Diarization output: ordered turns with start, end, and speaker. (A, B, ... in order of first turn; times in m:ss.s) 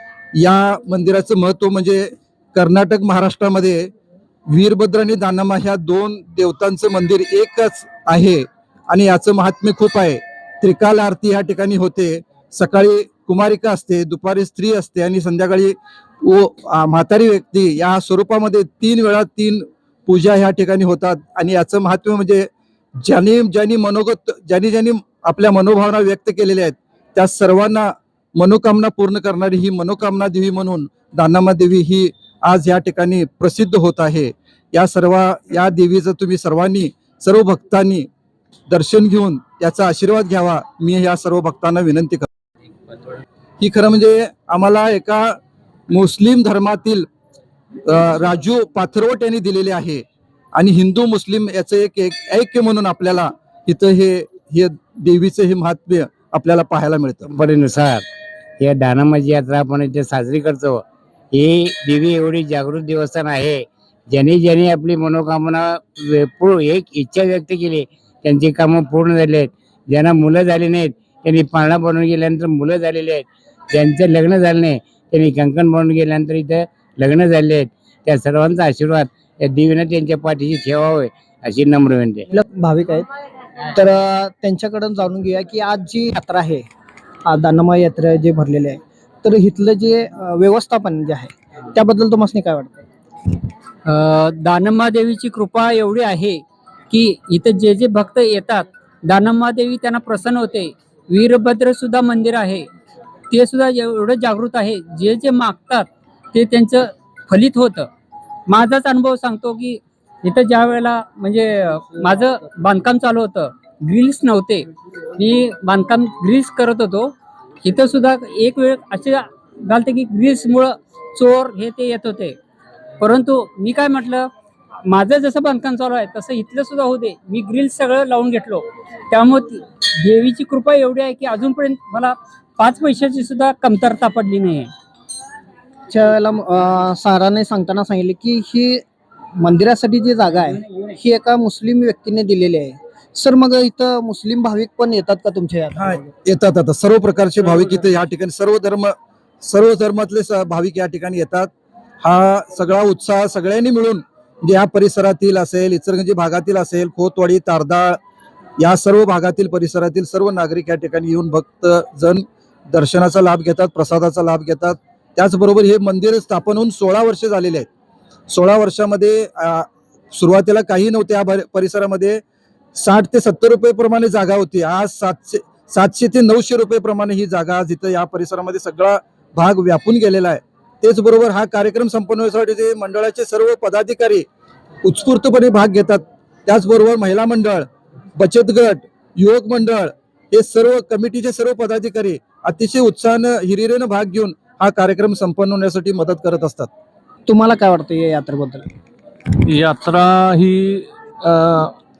0:00.4-0:03.9 A
0:04.5-0:22.5 A
0:23.0-0:38.1 A
0:38.7-0:42.3 A
0:43.6-0:45.4 A
0:45.9-0:47.1 A
0:47.9-0:50.0 A
0:50.6-0:57.3 A
0:57.3-0:58.0 B
0:58.6-1:22.2 B
1:22.3-1:23.1 C
1:23.7-1:26.6 C
1:27.2-1:32.8 C
1:33.9-1:42.7 D
1:43.3-1:47.9 D
1:48.5-2:02.4 D
2:03.0-2:04.3 D
2:04.9-2:14.7 D
2:15.9-2:18.8 C
2:19.4-2:26.0 C
2:25.8-2:31.5 A
2:32.0-2:38.0 A
2:38.6-2:47.7 A
2:48.3-2:52.2 A
2:52.7-3:04.2 A
3:04.8-3:07.6 A
3:08.2-3:16.7 A
3:17.3-3:18.6 C
3:19.5-3:21.7 E